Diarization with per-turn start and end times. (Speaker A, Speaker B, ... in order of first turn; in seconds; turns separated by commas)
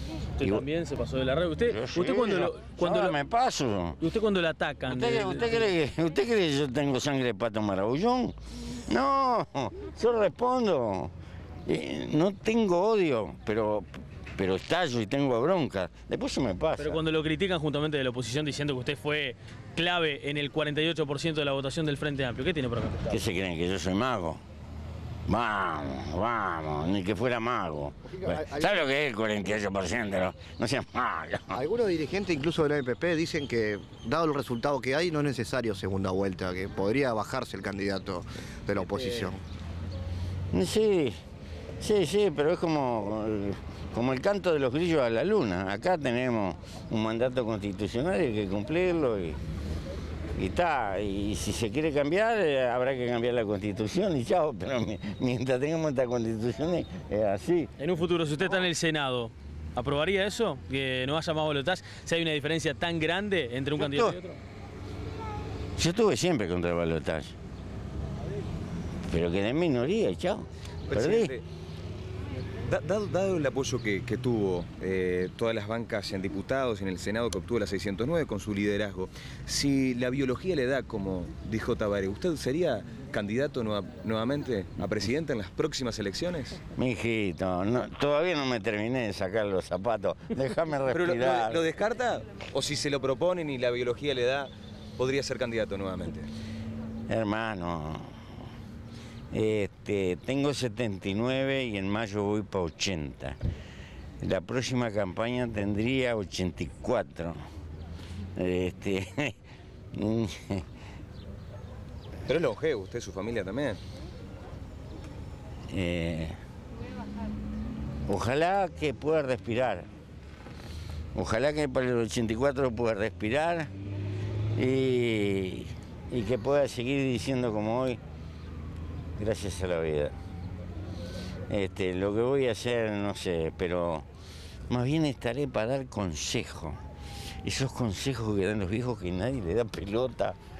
Speaker A: 0.4-3.1, Speaker B: 1.6-4.0, Speaker A: 4.0-5.7, Speaker B: 4.9-11.1, Speaker B: 11.7-17.0, Speaker A: 16.8-23.2, Speaker B: 23.1-24.4, Speaker B: 25.3-31.6, Speaker C: 28.1-28.8, Speaker C: 31.5-39.4, Speaker B: 40.5-41.2, Speaker B: 41.8-49.4, Speaker B: 50.3-57.7, Speaker A: 57.8-64.4, Speaker B: 63.7-64.2, Speaker B: 65.8-67.3, Speaker B: 69.0-71.3, Speaker D: 70.9-71.4, Speaker D: 72.6-86.6, Speaker B: 86.8-91.6, Speaker D: 90.9-96.3, Speaker B: 97.1-98.1, Speaker B: 99.3-103.4, Speaker B: 104.2-107.4, Speaker B: 108.3-109.3, Speaker B: 109.9-110.6, Speaker D: 112.3-113.8, Speaker B: 115.7-116.4, Speaker B: 118.1-119.9, Speaker B: 121.1-123.7, Speaker B: 124.5-128.0, Speaker B: 129.2-130.1, Speaker B: 131.5-134.1, Speaker B: 134.7-136.8, Speaker B: 137.4-140.4